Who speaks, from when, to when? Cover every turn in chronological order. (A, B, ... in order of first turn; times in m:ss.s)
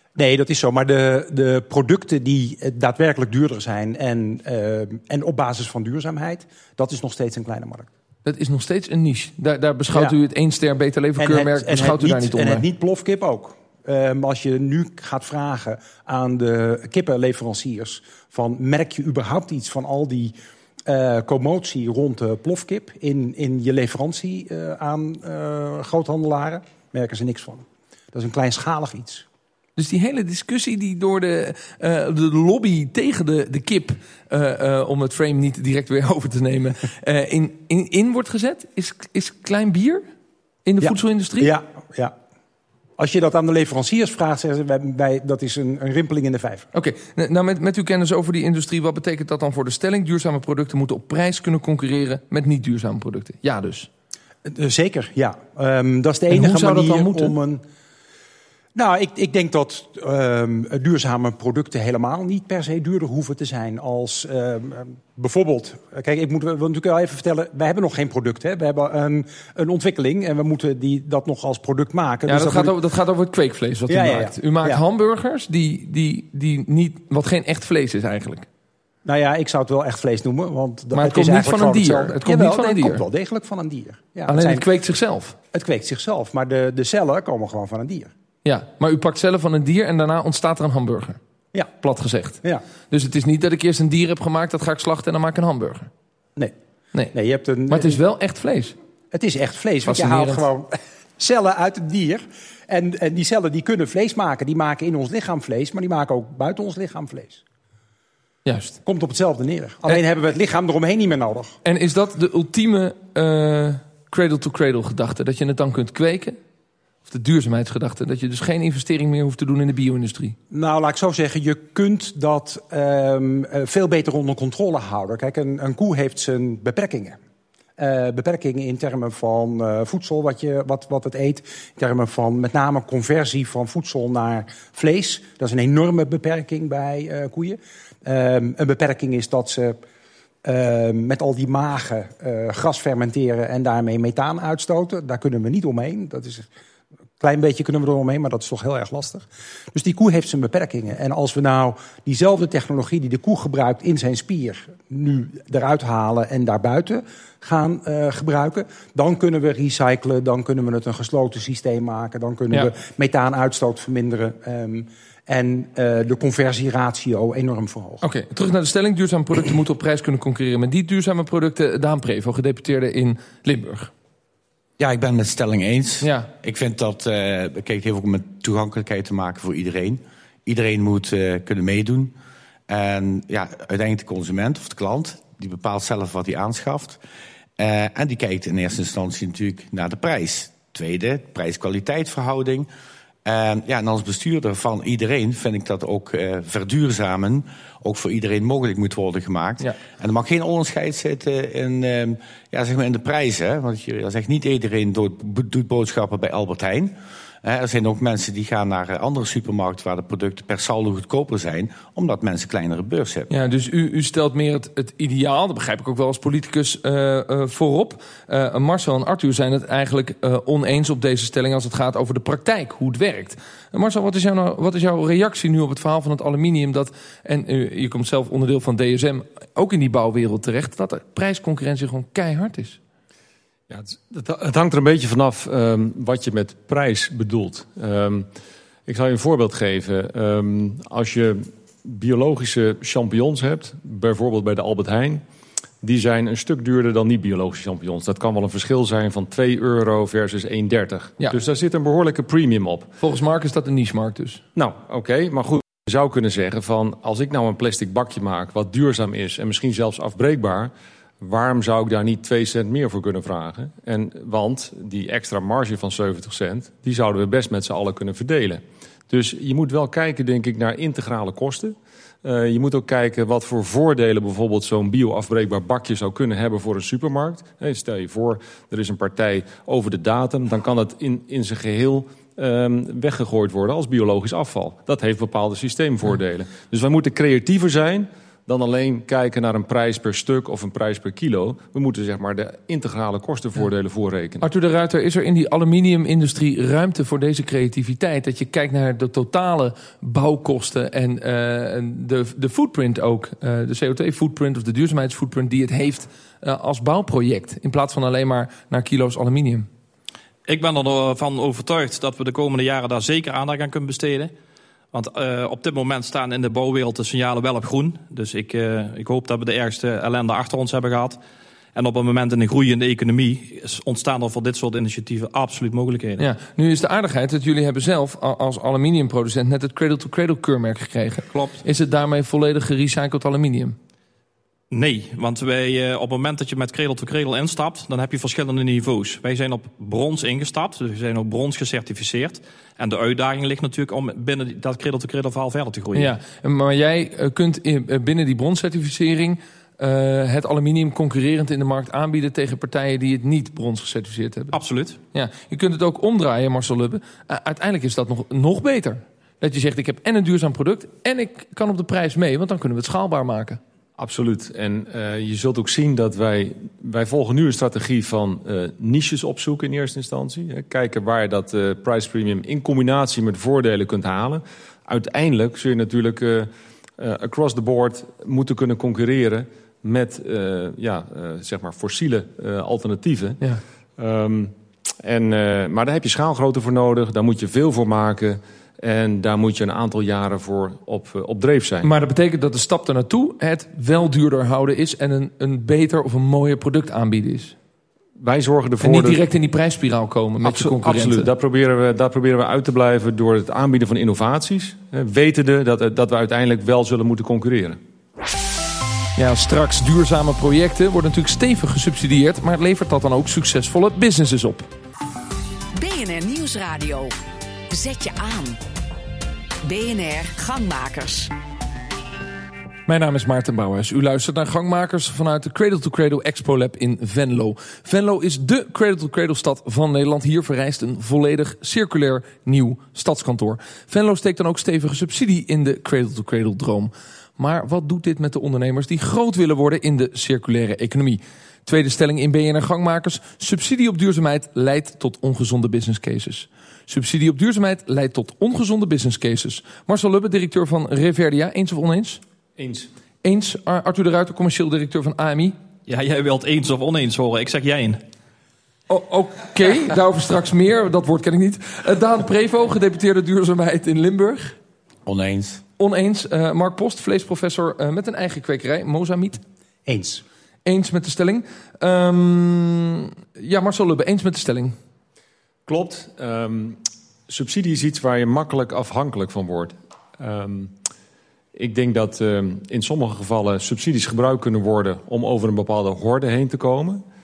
0:00.2-0:07.9 A
0:08.2-0:12.6 B
0:11.2-0:20.3 A
0:20.8-0:29.2 A
0:29.8-0:40.0 B
0:40.6-0:41.5 B
0:40.8-0:42.1 A
0:43.0-0:46.7 A
0:46.7-0:53.9 B
0:54.4-0:57.6 A
0:56.3-0:57.3 B
0:58.7-1:12.7 A
1:12.3-1:18.4 B
1:13.9-1:14.8 A
1:19.0-1:24.6 A
1:20.9-1:23.0 B
1:24.3-1:25.4 B
1:25.5-1:28.1 A
1:28.4-1:31.2 B
1:31.8-1:35.9 B
1:37.1-1:38.0 A
1:37.7-1:38.7 B
1:39.1-1:47.4 A
1:39.8-1:40.5 B
1:48.4-1:48.8 B
1:48.8-1:51.6 A
1:51.6-1:56.4 B
1:57.0-2:00.4 B
2:00.5-2:07.2 A
2:07.8-2:19.8 A
2:20.4-2:26.5 A
2:27.2-2:48.0 A
2:48.0-2:53.9 B
2:54.8-3:02.1 C
2:56.0-2:56.3 B
3:02.7-3:07.0 C
3:07.6-3:12.7 C
3:13.2-3:33.3 C
3:33.3-3:52.8 B
3:53.7-3:58.3 D
3:58.9-4:05.2 D
4:05.8-4:12.9 D
4:13.0-4:14.4 B
4:14.5-4:54.4 D
4:54.4-5:09.7 B
5:10.5-5:14.3 E
5:14.9-5:21.2 E
5:21.7-5:26.2 E
5:26.2-5:33.8 B
5:31.3-5:31.6 E
5:34.7-5:46.1 E
5:45.9-5:54.5 B
5:54.5-5:55.0 E
5:55.1-6:03.6 B
6:04.0-6:23.4 D
6:24.0-6:31.9 D
6:31.8-6:37.5 B
6:38.2-6:39.2 D
6:38.8-6:41.3 B
6:40.4-6:47.8 D
6:49.2-6:54.7 B
6:55.7-6:57.1 F
6:57.7-6:58.6 F
6:59.6-7:01.3 F
7:02.9-7:32.2 B
7:32.6-7:32.9 D
7:33.2-7:35.5 B
7:35.9-7:38.0 E
7:38.9-7:44.6 B
7:45.0-7:45.6 C
7:45.8-7:49.4 B
7:49.8-7:50.2 A
7:50.6-7:54.7 B
7:55.7-8:00.7 D
8:01.5-8:07.0 D